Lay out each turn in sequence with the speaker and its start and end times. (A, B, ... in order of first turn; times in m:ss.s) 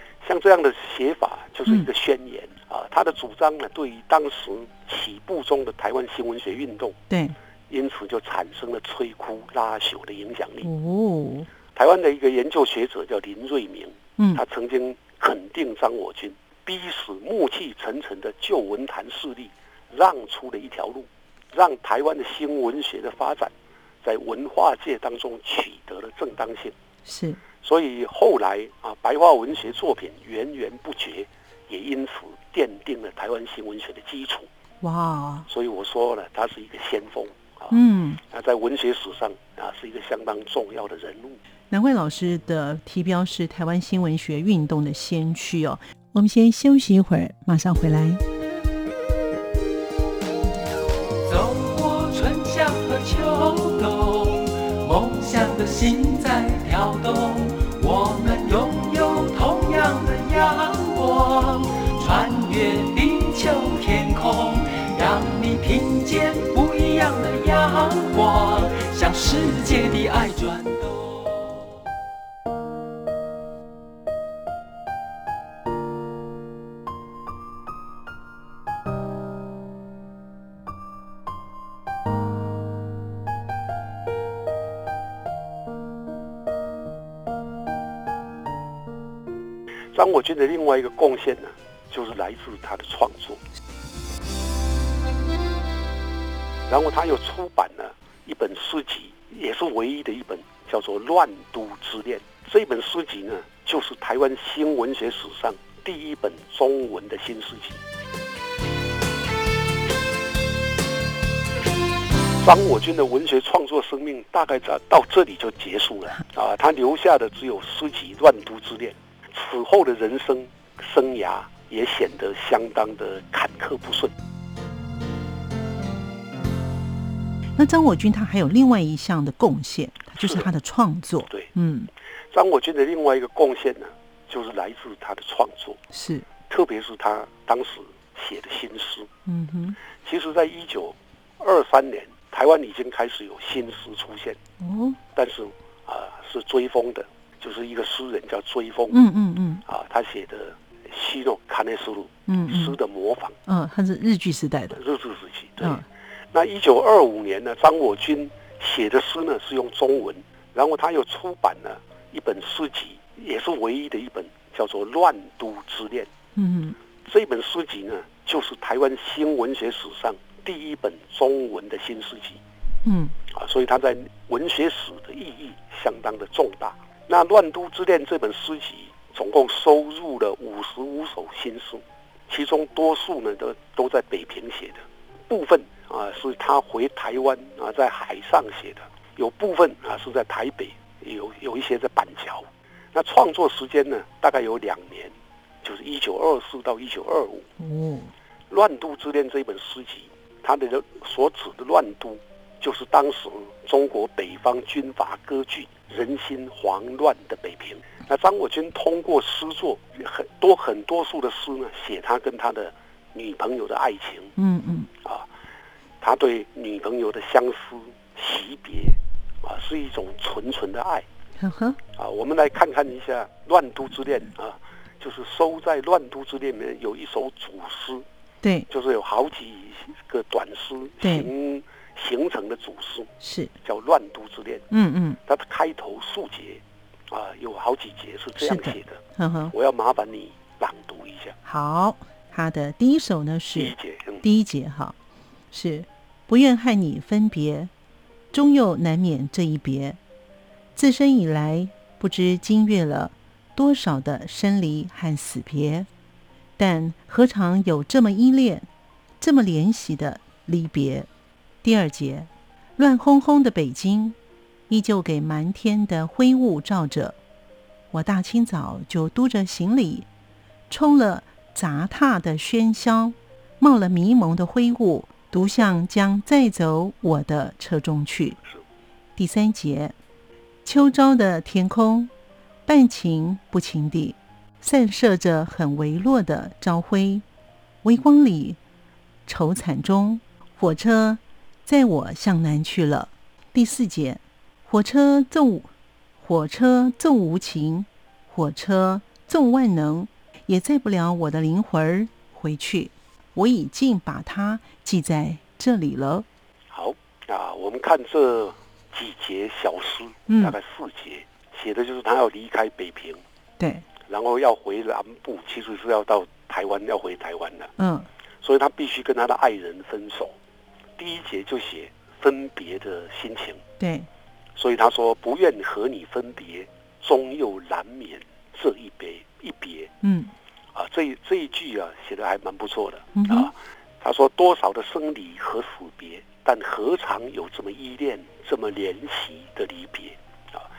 0:00.2-0:07.0 A
0:07.1-0:07.3 B
0:07.7-0:10.7 A
0:10.6-0:11.5 B
0:11.7-0:23.5 A
0:24.0-0:26.7 A
0:27.0-0:27.4 B
0:27.6-0:34.5 A
0:34.8-0:35.5 B
0:35.5-0:41.4 A
0:37.7-0:38.2 B
0:41.7-0:48.2 B
0:51.2-1:11.6 C
1:29.9-1:33.4 A
1:36.7-1:47.8 A
1:52.4-2:04.1 A
2:07.6-2:11.9 B
2:10.2-2:10.5 A
2:12.3-2:15.8 A
2:15.9-2:16.2 B
2:16.5-2:19.1 A
2:19.2-2:19.8 B
2:20.0-2:24.4 A
2:24.6-2:25.0 B
2:25.1-2:29.0 A
2:28.9-2:29.6 B
2:29.6-2:33.4 A
2:32.3-2:32.8 B
2:33.5-2:34.8 B
2:34.7-2:46.1 A
2:46.4-2:46.8 B
2:47.0-2:52.4 A
2:52.8-2:53.1 B
2:53.3-3:17.5 A
3:17.6-3:18.1 B
3:18.5-3:34.3 A
3:34.4-3:34.9 B
3:36.0-3:41.0 A
3:41.4-3:41.8 B
3:42.0-3:48.0 A
3:48.4-3:48.7 B
3:48.7-3:53.1 A
3:51.0-3:51.3 B
3:53.2-3:53.5 B
3:53.6-3:54.7 A
3:54.7-3:55.2 B
3:55.2-3:59.0 A
3:58.4-3:59.5 B
3:59.5-4:01.4 A
4:01.4-4:05.0 B
4:03.5-4:04.2 A
4:05.5-4:07.7 B
4:08.3-4:10.0 B
4:10.7-4:15.9 B
4:16.6-4:18.7 B
4:19.2-4:21.1 B
4:21.6-4:24.2 B
4:24.7-4:27.2 B
4:27.9-4:30.1 B
4:30.7-4:38.4 B
4:39.2-4:39.9 B
4:40.6-4:42.1 B
4:42.6-4:47.2 B
4:47.8-4:48.6 B
4:49.2-5:06.2 B
5:06.7-5:13.2 A
5:10.3-5:10.5 B
5:13.6-5:13.8 B
5:14.1-5:17.7 A
5:17.8-5:18.1 B
5:18.4-5:20.3 A
5:21.0-5:23.6 A
5:23.8-5:24.1 B
5:24.6-5:29.9 A
5:30.0-5:30.3 B
5:30.7-5:40.6 A
5:33.1-5:33.5 B